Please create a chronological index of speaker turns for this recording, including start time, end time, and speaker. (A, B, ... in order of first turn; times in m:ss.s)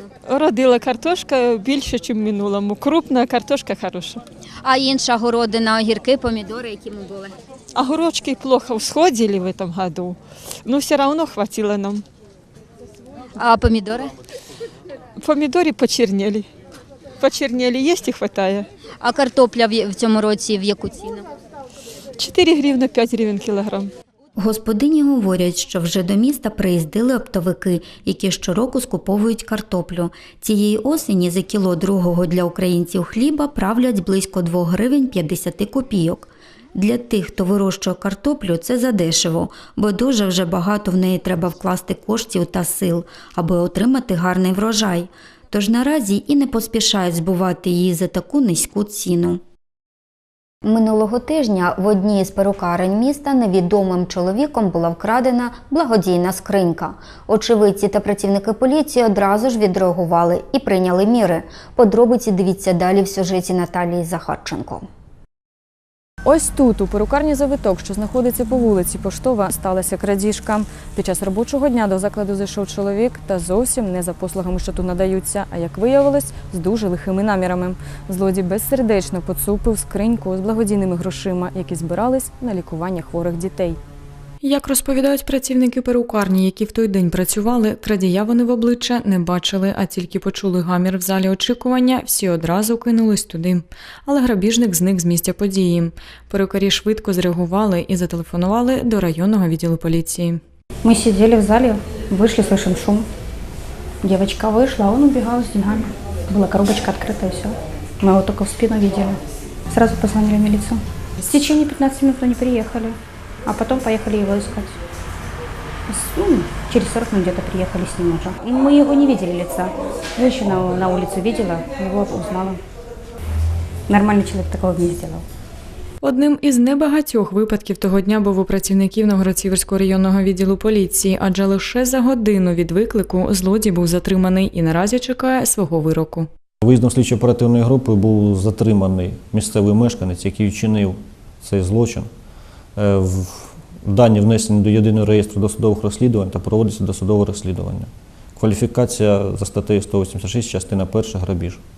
0:00.3-0:04.2 A
0:04.6-0:07.4 B
0:07.8-0:12.0 A
0:13.4-0:14.1 B
0:15.2-0:16.5 A
0:17.2-0:18.7 A
0:19.0-0:21.3 B
0:22.2-0:23.9 A
0:24.4-0:49.4 C
0:50.6-1:04.9 C
1:06.2-1:23.8 D
1:24.4-1:40.4 E
1:40.8-1:43.1 F
1:44.0-1:49.2 F
1:49.7-1:54.8 F
1:55.9-2:02.6 F
2:03.9-2:05.2 F
2:06.0-2:16.3 E
2:16.6-2:22.1 G
2:22.8-2:31.6 G